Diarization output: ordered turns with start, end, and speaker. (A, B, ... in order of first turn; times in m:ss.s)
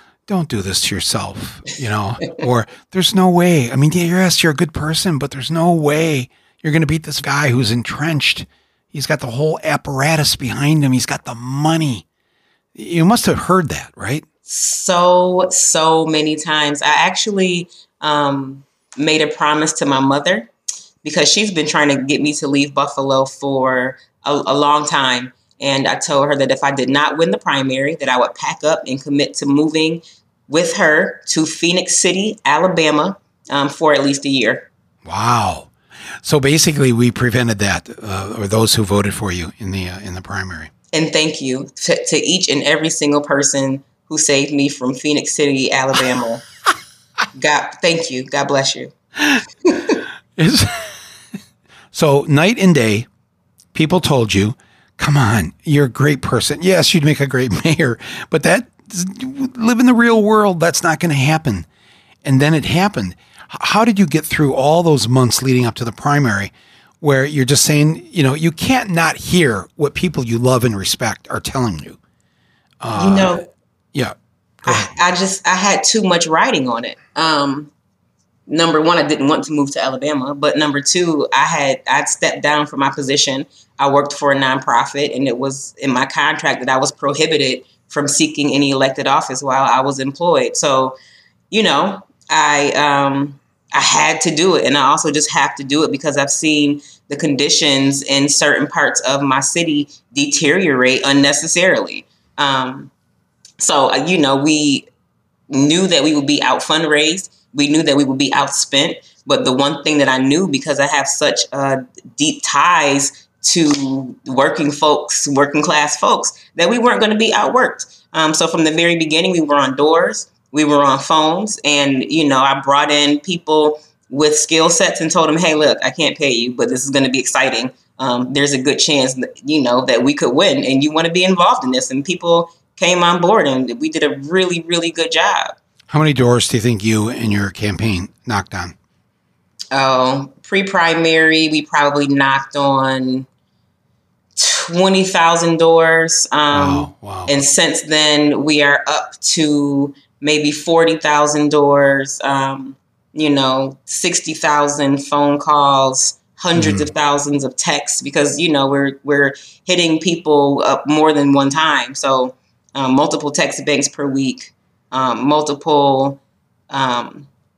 0:00.3-0:12.0 A
0:12.8-0:14.3 A
0:14.5-0:20.5 B
0:21.0-0:34.7 B
0:35.0-0:35.7 A
0:36.2-0:40.7 A
0:40.9-0:46.4 B
0:47.4-0:48.9 B
0:49.7-0:50.0 B
0:50.4-0:50.9 A
0:51.9-0:53.1 A
0:53.7-1:01.7 A
1:02.2-1:12.0 A
1:12.8-1:14.9 A
1:13.0-1:13.4 B
1:14.6-1:17.7 B
1:18.5-1:31.0 B
1:31.5-1:42.9 B
1:43.6-1:44.9 B
1:45.5-2:15.6 B
2:15.9-2:18.8 A
2:19.7-2:23.3 B
2:24.4-2:46.2 B
2:26.5-2:27.3 A
2:36.6-2:36.9 A
2:46.7-2:47.3 B